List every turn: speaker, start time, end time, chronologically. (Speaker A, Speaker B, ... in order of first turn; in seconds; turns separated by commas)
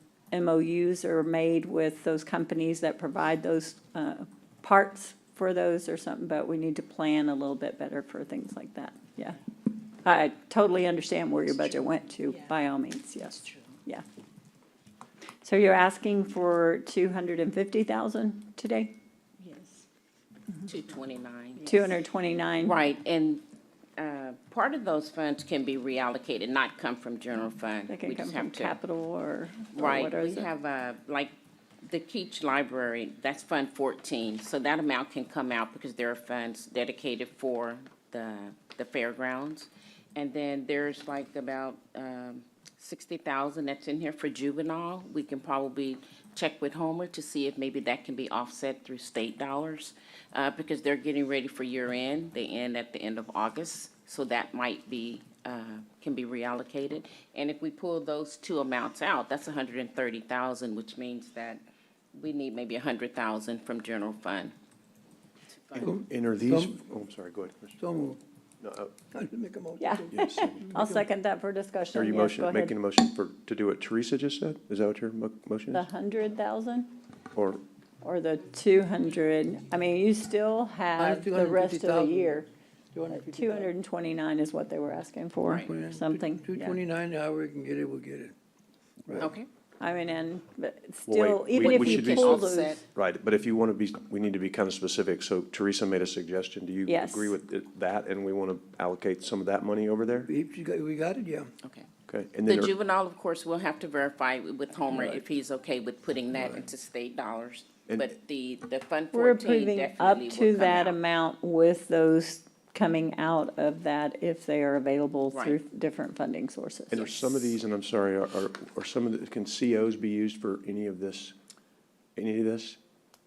Speaker A: 0.3-9.4, Speaker A: 9.9-14.0, Speaker A: 15.4-19.8, Speaker B: 20.6-21.9, Speaker A: 21.6-22.8, Speaker B: 22.6-23.4, Speaker B: 24.0-28.8, Speaker A: 27.9-30.5, Speaker B: 29.7-31.3, Speaker B: 31.8-61.6, Speaker B: 62.1-64.5, Speaker B: 65.5-65.9, Speaker C: 65.8-66.8, Speaker D: 65.8-69.0, Speaker C: 67.8-68.2, Speaker C: 69.1-71.0, Speaker A: 69.8-72.7, Speaker D: 70.1-70.7, Speaker D: 71.9-75.8, Speaker A: 75.7-76.9, Speaker D: 77.3-77.6, Speaker A: 78.0-82.5, Speaker C: 81.0-82.4, Speaker C: 82.9-83.7, Speaker A: 83.1-86.8, Speaker C: 85.4-88.3, Speaker B: 85.5-85.7, Speaker C: 89.0-89.3, Speaker B: 89.2-89.5, Speaker A: 89.8-92.8, Speaker D: 91.0-100.3, Speaker B: 91.5-92.8, Speaker A: 96.9-97.3, Speaker C: 100.2-101.5, Speaker D: 102.1-102.7, Speaker B: 102.5-111.0, Speaker A: 109.1-117.5, Speaker D: 116.9-121.3, Speaker D: 122.2-122.8